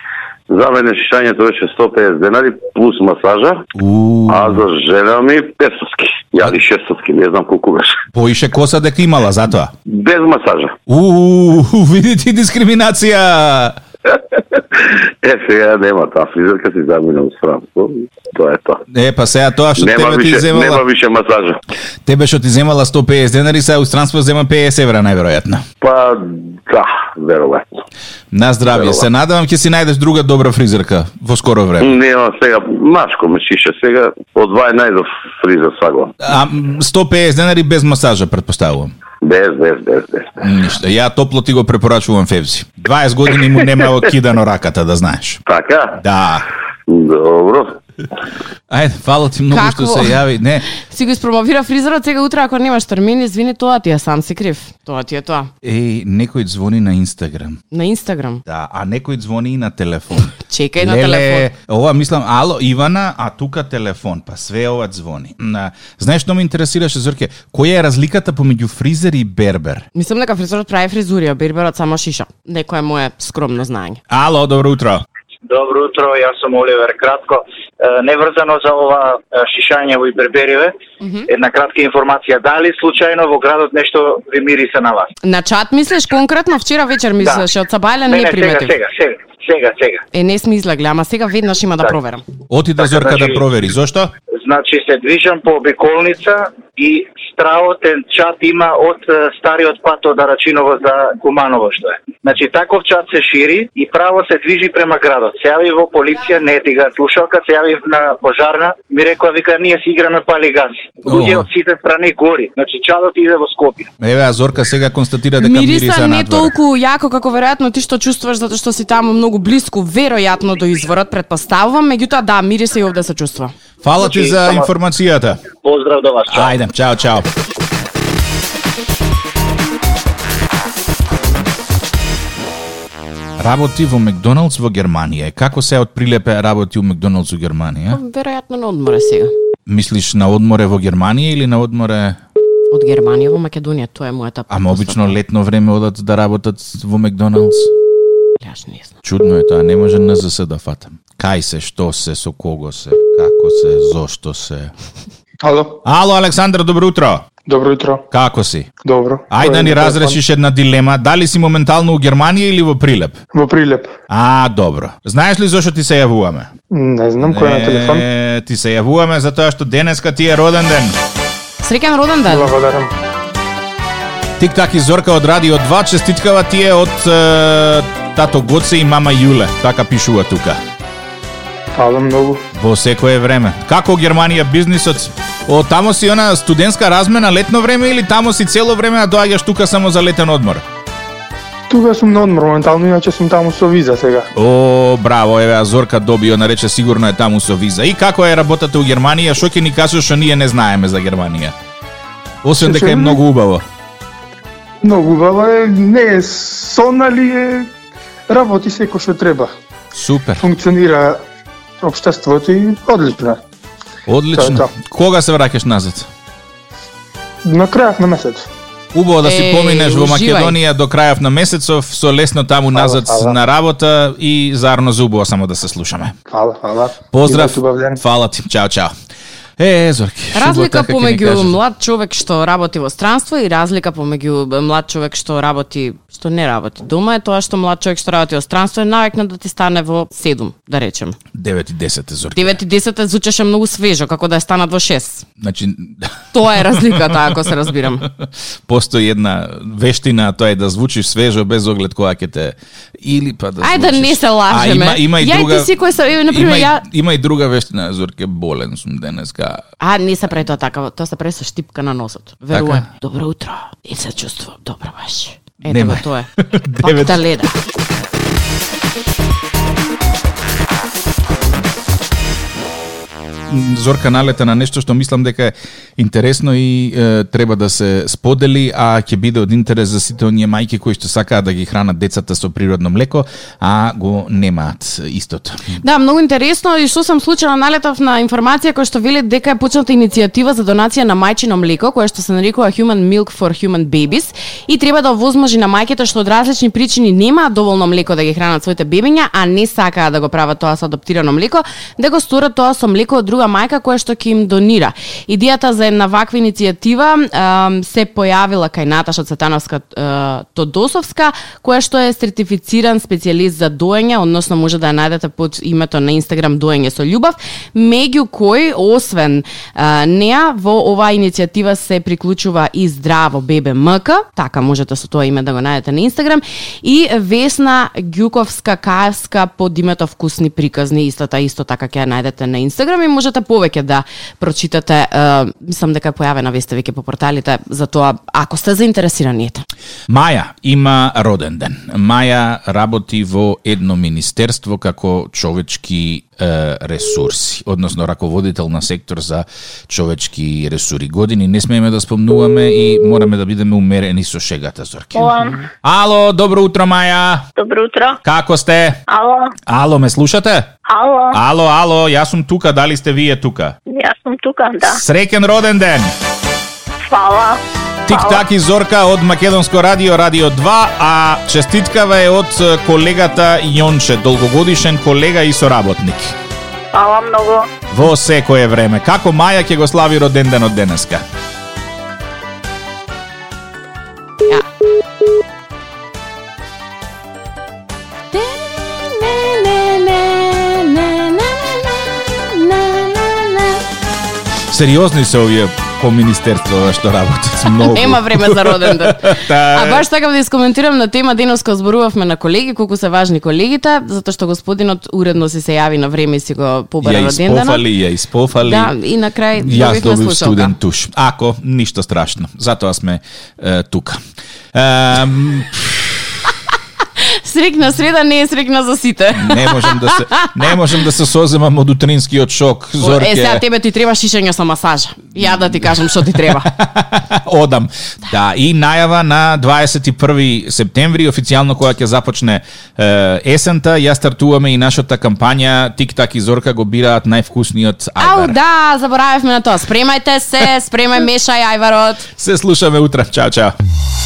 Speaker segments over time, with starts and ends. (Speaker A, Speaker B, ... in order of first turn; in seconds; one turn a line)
Speaker A: 0.5-3.7
Speaker B: 3.7-4.6
Speaker A: 4.3-8.0
Speaker B: 8.1-9.7
Speaker A: 9.9-10.8
Speaker B: 10.9-13.8
Speaker A: 14.4-18.8
Speaker B: 18.9-20.8
Speaker A: 19.8-21.6
Speaker B: 22.0-25.6
Speaker A: 25.8-27.6
Speaker B: 28.3-31.9
Speaker A: 28.7-29.1
Speaker A: 31.8-36.1
Speaker B: 36.2-38.9
Speaker A: 39.2-40.4
Speaker B: 40.4-45.4
Speaker A: 45.5-46.0
Speaker B: 45.9-46.5
Speaker A: 46.9-47.8
Speaker B: 48.7-50.6
Speaker C: 49.5-55.5
Speaker B: 55.6-57.6
Speaker C: 57.7-58.4
Speaker B: 58.5-69.9
Speaker C: 60.3-61.5
Speaker C: 69.9-74.0
Speaker B: 74.1-75.0
Speaker D: 75.5-80.7
Speaker C: 81.0-81.2
Speaker D: 81.3-85.1
Speaker C: 85.2-88.7
Speaker D: 88.1-90.0
Speaker C: 90.1-92.2
Speaker B: 92.5-94.1
Speaker D: 92.8-93.4
Speaker D: 94.3-113.9
Speaker B: 111.0-111.5
Speaker B: 114.0-116.5
Speaker C: 115.4-123.5
Speaker B: 123.8-125.4
Speaker D: 124.0-124.7
Speaker D: 125.6-126.5
Speaker B: 126.3-127.3
Speaker B: 133.4-138.0
Speaker C: 137.9-139.3
Speaker B: 139.7-142.2
Speaker C: 142.7-145.2
Speaker B: 144.5-147.7
Speaker C: 148.4-148.9
Speaker B: 149.0-154.7
Speaker E: 155.4-155.8
Speaker B: 155.8-157.3
Speaker E: 157.4-158.0
Speaker B: 158.1-158.7
Speaker E: 158.8-160.2
Speaker B: 159.3-163.2
Speaker E: 163.3-163.9
Speaker B: 164.1-166.5
Speaker E: 166.7-168.0
Speaker B: 167.2-170.9
Speaker C: 171.6-172.5
Speaker E: 172.2-172.9
Speaker B: 174.4-180.6
Speaker E: 181.7-182.4
Speaker B: 182.5-190.6
Speaker E: 191.7-194.3
Speaker B: 194.3-201.6
Speaker B: 202.4-203.6
Speaker E: 202.6-203.2
Speaker E: 204.8-207.7
Speaker E: 208.3-209.5
Speaker B: 209.9-210.4
Speaker E: 210.4-211.2
Speaker E: 211.8-213.4
Speaker B: 214.1-216.1
Speaker E: 214.3-214.7
Speaker E: 217.4-218.5
Speaker B: 218.9-226.2
Speaker C: 219.2-220.6
Speaker E: 222.7-223.4
Speaker E: 226.3-228.0
Speaker B: 227.1-228.9
Speaker B: 229.6-231.6
Speaker C: 230.3-241.2
Speaker B: 241.3-242.6
Speaker C: 242.3-245.2
Speaker B: 245.4-247.3
Speaker C: 246.3-248.1
Speaker B: 248.1-255.7
Speaker C: 253.6-256.8
Speaker B: 256.2-259.6
Speaker C: 259.8-267.6
Speaker B: 262.5-262.9
Speaker B: 265.7-267.2
Speaker B: 273.5-285.8
Speaker C: 285.8-339.6
Speaker B: 340.1-357.5
Speaker F: 355.1-355.7
Speaker F: 357.6-358.2
Speaker B: 358.2-359.0
Speaker F: 359.1-359.5
Speaker B: 359.6-360.7
Speaker F: 360.8-361.4
Speaker B: 361.3-363.8
Speaker F: 363.9-365.0
Speaker B: 364.8-366.1
Speaker F: 367.1-368.4
Speaker B: 368.1-376.4
Speaker F: 376.9-377.7
Speaker B: 377.9-381.2
Speaker C: 388.3-393.8
Speaker B: 394.7-400.0
Speaker C: 397.8-407.8
Speaker B: 407.0-408.9
Speaker C: 408.6-410.7
Speaker B: 409.6-414.2
Speaker B: 414.7-416.4
Speaker C: 417.2-420.7
Speaker B: 419.3-423.6
Speaker C: 423.0-426.7
Speaker B: 425.4-438.6
Speaker C: 438.2-442.3
Speaker B: 442.4-443.7